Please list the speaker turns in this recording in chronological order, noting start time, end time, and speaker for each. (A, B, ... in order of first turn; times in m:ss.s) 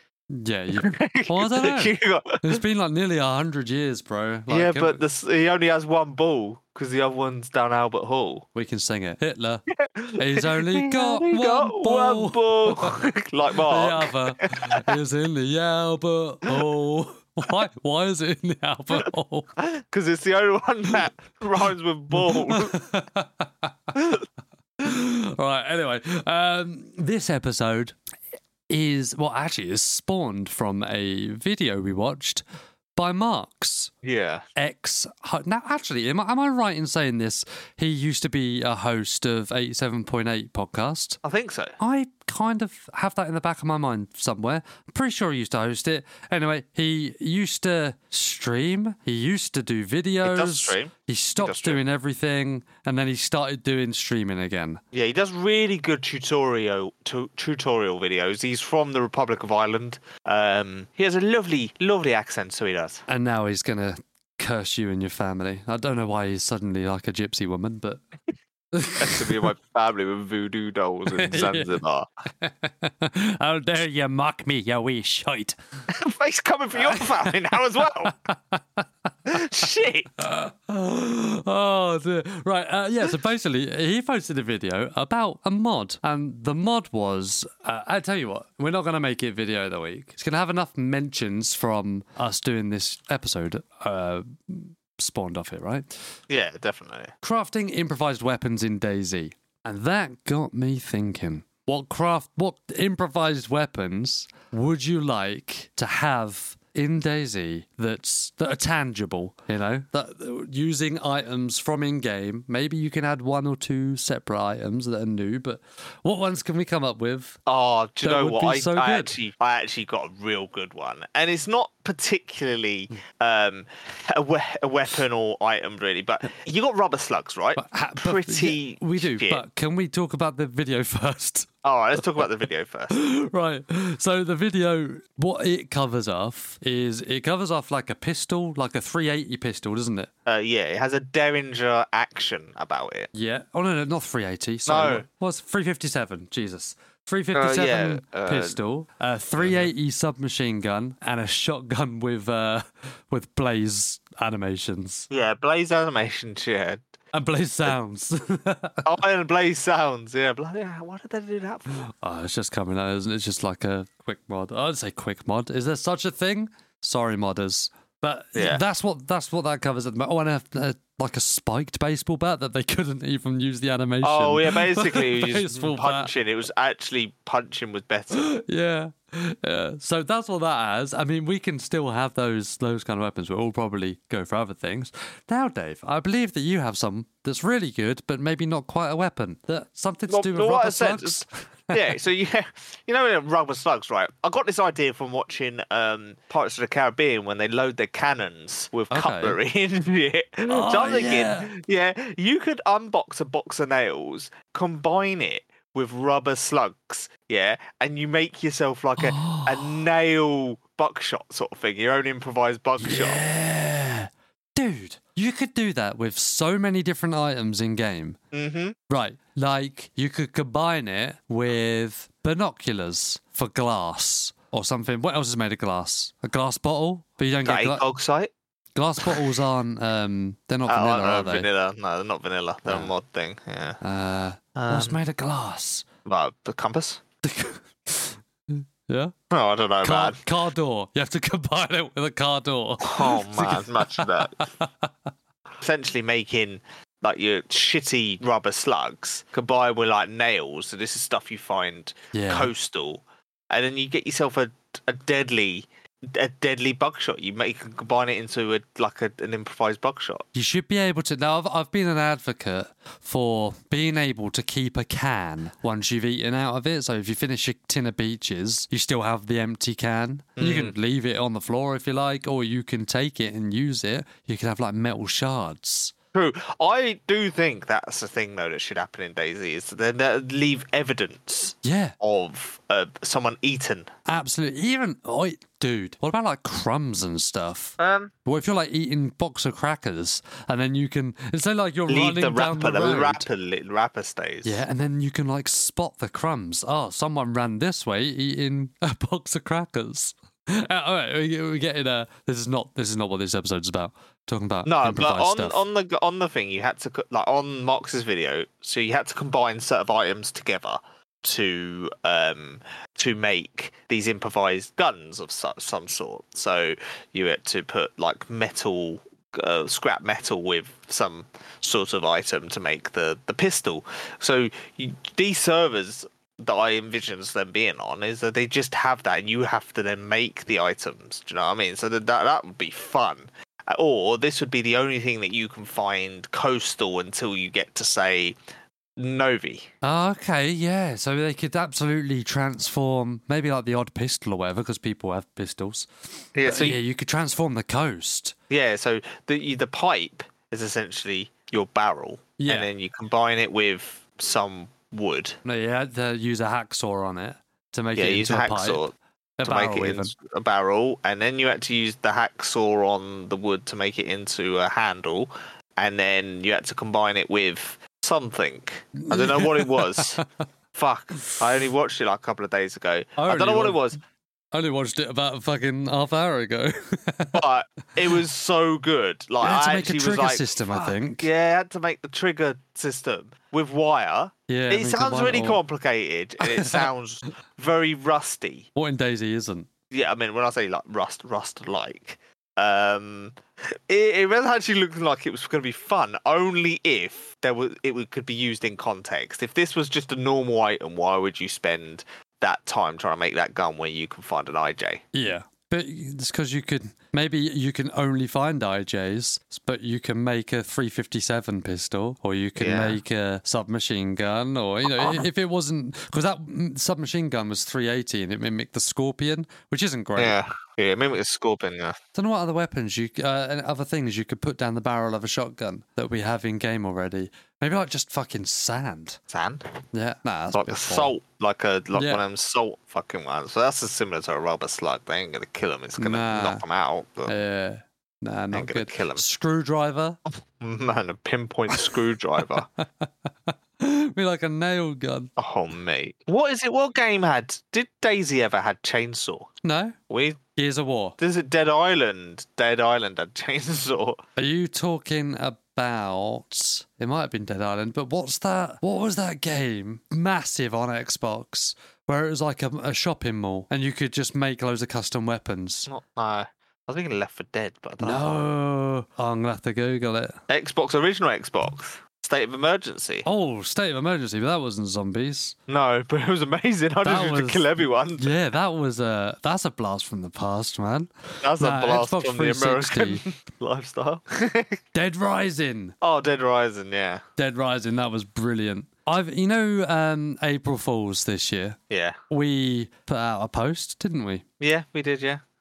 0:00.3-0:05.0 A
0:00.7-0:02.6 B
0:04.5-0:08.4 B
0:08.5-0:09.6 A
0:09.7-0:15.0 B
0:10.2-0:13.0 A
0:13.7-0:19.5 A
0:19.6-0:22.8 B
0:22.1-0:23.7 A
0:23.9-0:24.2 B
0:24.8-0:28.0 A
0:28.7-0:32.4 A
0:33.0-0:33.9 A
0:34.0-0:34.4 B
0:34.6-0:41.2 A
0:41.2-0:41.8 B
0:41.8-0:54.8 A
0:50.2-0:51.8 B
0:54.9-1:03.0 B
1:03.1-1:08.0 A
1:08.7-1:09.4 A
1:09.0-1:12.1 B
1:11.1-1:11.8 A
1:12.4-1:15.6 A
1:15.9-1:18.1 B
1:18.0-1:19.4 A
1:19.3-1:20.1 B
1:20.2-1:35.9 A
1:36.3-1:37.1 B
1:37.2-1:57.4 A
1:57.5-2:09.4 B
1:58.0-1:59.1 A
2:07.6-2:11.5 A
2:11.6-2:12.9 B
2:12.9-2:20.1 A
2:20.2-2:23.1 B
2:23.1-2:35.1 A
2:24.7-2:25.0 B
2:27.3-2:28.6 B
2:29.4-2:29.7 B
2:35.1-2:36.8 B
2:37.1-2:38.8 A
2:38.8-2:41.9 B
2:41.8-2:56.1 A
2:48.3-2:48.6 B
2:54.0-2:58.3 B
2:58.1-3:11.9 A
3:10.1-3:33.2 B
3:18.9-3:19.4 A
3:20.5-3:21.5 A
3:29.0-3:29.8 A
3:32.8-3:38.2 A
3:38.3-3:38.7 B
3:38.9-3:47.8 A
3:47.4-3:48.3 B
3:48.7-3:51.5 A
3:50.7-3:53.8 B
3:52.6-3:52.9 A
3:53.8-3:55.9 A
3:54.5-3:55.0 B
3:56.0-3:57.0 B
3:57.2-3:59.1 A
3:59.3-4:00.2 B
3:59.8-4:04.9 A
4:02.8-4:04.4 B
4:05.6-4:20.3 B
4:12.1-4:12.5 A
4:20.3-4:35.9 A
4:30.4-4:30.8 B
4:36.1-4:43.9 B
4:41.6-4:41.9 A
4:44.0-4:53.2 A
4:47.8-4:48.1 B
4:51.9-4:54.6 B
4:54.4-5:05.6 A
5:04.6-5:38.4 B
5:39.0-5:39.7 B
5:39.8-5:48.3 A
5:46.3-5:46.8 B
5:48.5-5:55.4 B
5:52.4-5:52.7 A
5:55.4-5:58.8 A
5:58.0-6:10.2 B
5:59.4-6:00.1 A
6:09.0-6:10.2 A
6:10.7-6:14.0 B
6:13.2-6:13.9 A
6:14.5-6:17.4 A
6:17.3-6:28.7 B
6:19.4-6:21.3 A
6:24.5-6:25.6 A
6:26.4-6:26.9 A
6:28.7-6:29.7 A
6:29.9-6:45.0 B
6:45.1-7:00.4 A
6:52.6-6:53.0 B
6:54.9-6:55.2 B
7:00.2-7:02.0 B
7:02.1-7:09.2 A
7:09.3-7:09.6 B
7:09.9-7:11.1 A
7:10.5-7:17.3 B
7:11.9-7:12.2 A
7:16.0-7:16.6 A
7:17.3-7:20.2 A
7:18.5-7:19.2 B
7:20.6-7:22.7 B
7:22.8-7:25.3 A
7:25.4-7:29.5 B
7:29.6-7:30.0 A
7:30.1-7:30.4 B
7:30.6-7:31.2 A
7:31.2-7:34.2 B
7:34.4-7:45.9 A
7:45.9-7:48.4 B
7:48.0-7:50.4 A
7:50.5-7:53.2 B
7:53.2-7:55.6 A
7:55.7-7:58.3 B
7:57.0-8:03.2 A
8:01.4-8:04.8 B
8:04.9-8:06.0 A
8:06.0-8:07.2 B
8:07.4-8:11.8 A
8:11.9-8:12.2 B
8:12.3-8:14.4 A
8:14.6-8:15.4 B